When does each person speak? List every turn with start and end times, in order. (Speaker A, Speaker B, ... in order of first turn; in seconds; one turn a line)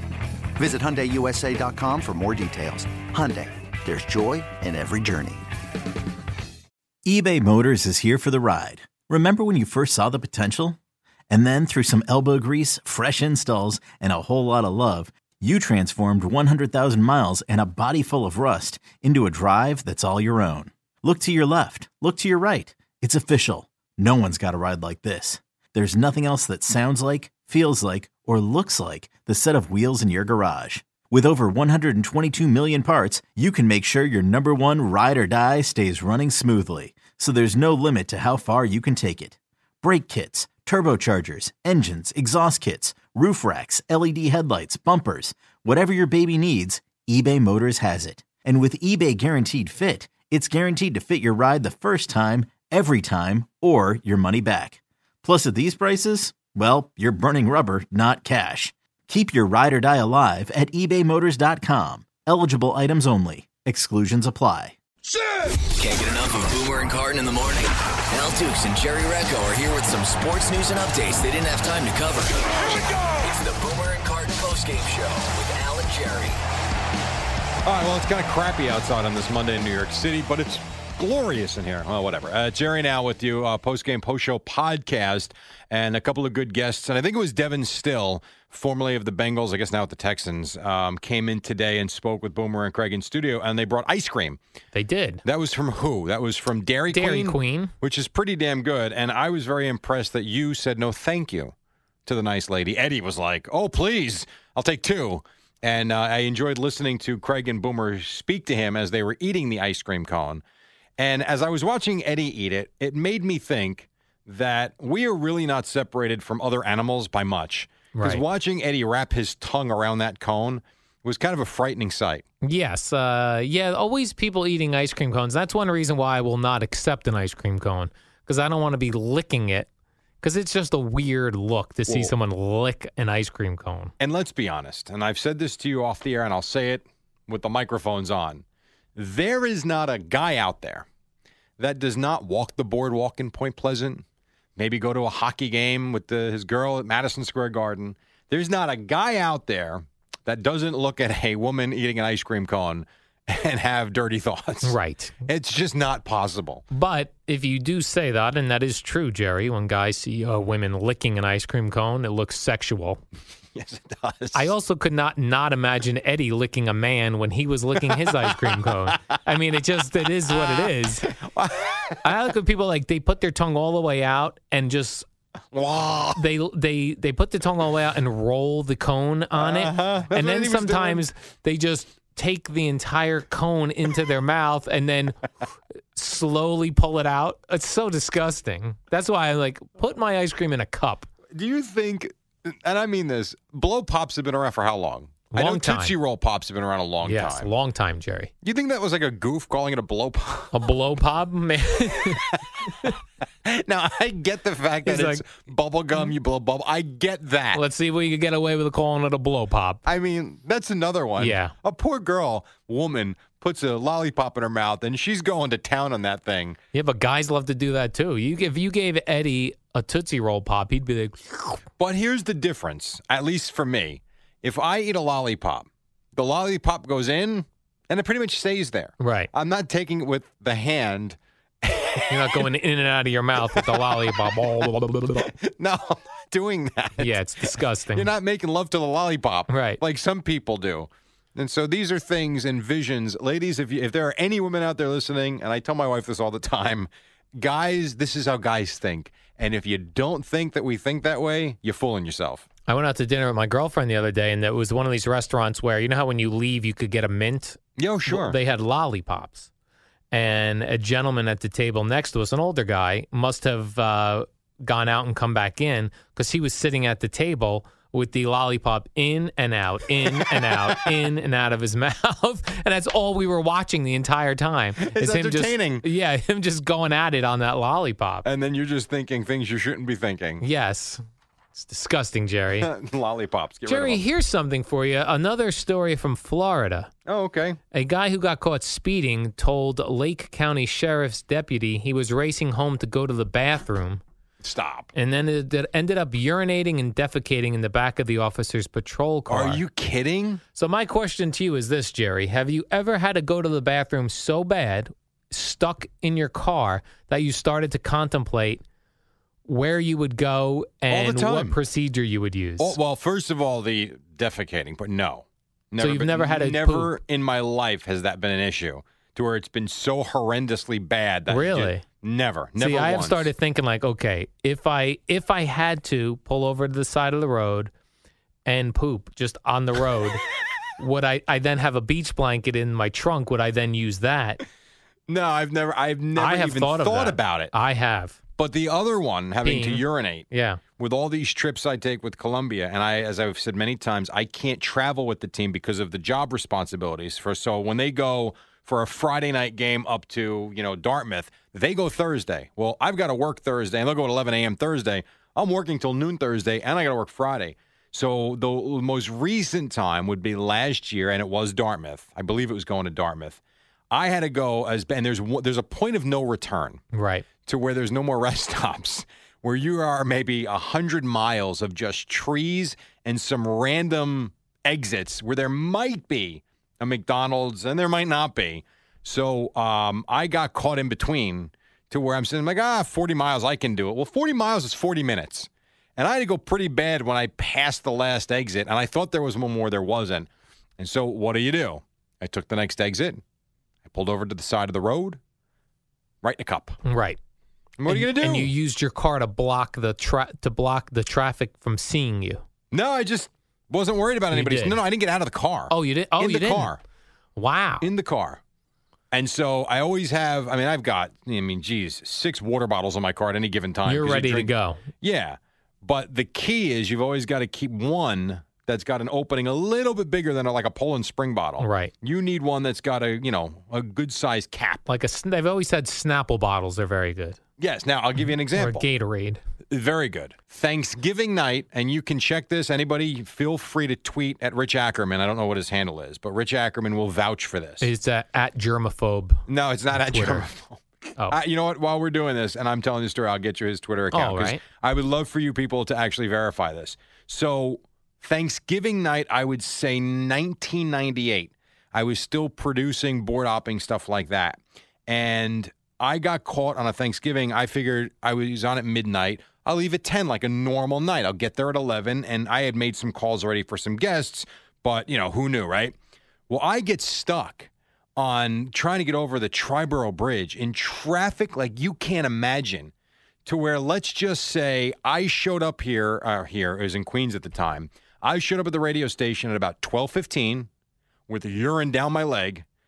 Speaker A: 0.6-5.5
Speaker B: 7.0-10.8
Speaker B: 11.3-64.8
Speaker C: 65.7-76.4
Speaker D: 77.7-94.4
Speaker E: 94.7-95.2
Speaker D: 95.2-101.5
Speaker E: 96.9-97.7
Speaker D: 102.1-110.4
Speaker D: 111.0-122.2
Speaker E: 117.9-118.2
Speaker E: 122.4-129.7
Speaker E: 130.2-133.9
Speaker D: 134.0-138.4
Speaker D: 139.0-140.9
Speaker D: 141.6-144.0
Speaker D: 144.6-156.6
Speaker E: 154.6-155.2
Speaker E: 156.7-163.0
Speaker D: 163.6-164.5
Speaker E: 164.3-171.1
Speaker D: 167.9-169.2
Speaker D: 170.3-172.3
Speaker E: 172.0-175.1
Speaker D: 175.5-176.2
Speaker E: 176.2-185.3
Speaker D: 179.4-181.1
Speaker E: 185.9-191.1
Speaker D: 191.3-197.5
Speaker E: 195.3-195.9
Speaker E: 197.0-198.3
Speaker D: 198.4-200.7
Speaker E: 200.5-202.2
Speaker D: 201.9-202.9
Speaker D: 203.4-207.6
Speaker E: 204.9-205.2
Speaker E: 207.5-209.8
Speaker D: 209.9-216.6
Speaker E: 211.2-211.5
Speaker E: 216.7-221.6
Speaker D: 221.8-232.5
Speaker E: 229.0-229.3
Speaker E: 232.1-235.3
Speaker D: 233.4-252.4
Speaker E: 237.0-238.1
Speaker E: 239.5-239.8
Speaker E: 252.7-259.5
Speaker D: 257.8-258.4
Speaker E: 260.1-278.3
Speaker D: 270.0-270.9
Speaker D: 274.8-275.9
Speaker D: 278.2-280.4
Speaker E: 280.4-281.0
Speaker E: 281.5-282.7
Speaker D: 282.6-284.0
Speaker E: 283.7-286.9
Speaker D: 287.1-287.6
Speaker E: 287.7-294.0
Speaker D: 294.4-294.9
Speaker E: 294.9-299.6
Speaker D: 299.3-300.4
Speaker E: 300.5-308.6
Speaker E: 309.5-312.8
Speaker D: 310.9-311.6
Speaker D: 312.6-323.3
Speaker E: 315.8-316.9
Speaker E: 321.3-321.9
Speaker E: 322.6-327.7
Speaker E: 328.4-330.2
Speaker E: 330.8-334.4
Speaker D: 335.1-337.5
Speaker E: 336.2-338.2
Speaker D: 338.4-363.4
Speaker E: 339.4-340.6
Speaker D: 363.9-366.8
Speaker E: 366.9-367.3
Speaker D: 367.5-390.3
Speaker D: 390.8-393.2
Speaker D: 393.9-395.2
Speaker D: 396.2-396.8
Speaker E: 396.8-397.2
Speaker D: 397.8-398.5
Speaker E: 397.9-402.4
Speaker D: 402.7-406.8
Speaker E: 404.3-404.8
Speaker E: 405.7-406.7
Speaker E: 407.4-407.9
Speaker D: 407.8-408.4
Speaker D: 409.1-424.8
Speaker E: 413.9-414.8
Speaker E: 421.6-421.9
Speaker E: 424.9-427.4
Speaker D: 427.6-428.9
Speaker E: 428.6-429.4
Speaker D: 429.7-437.9
Speaker E: 437.8-440.5
Speaker D: 439.5-465.9
Speaker E: 444.1-444.6
Speaker D: 466.5-472.9
Speaker D: 473.5-480.7
Speaker D: 481.3-482.6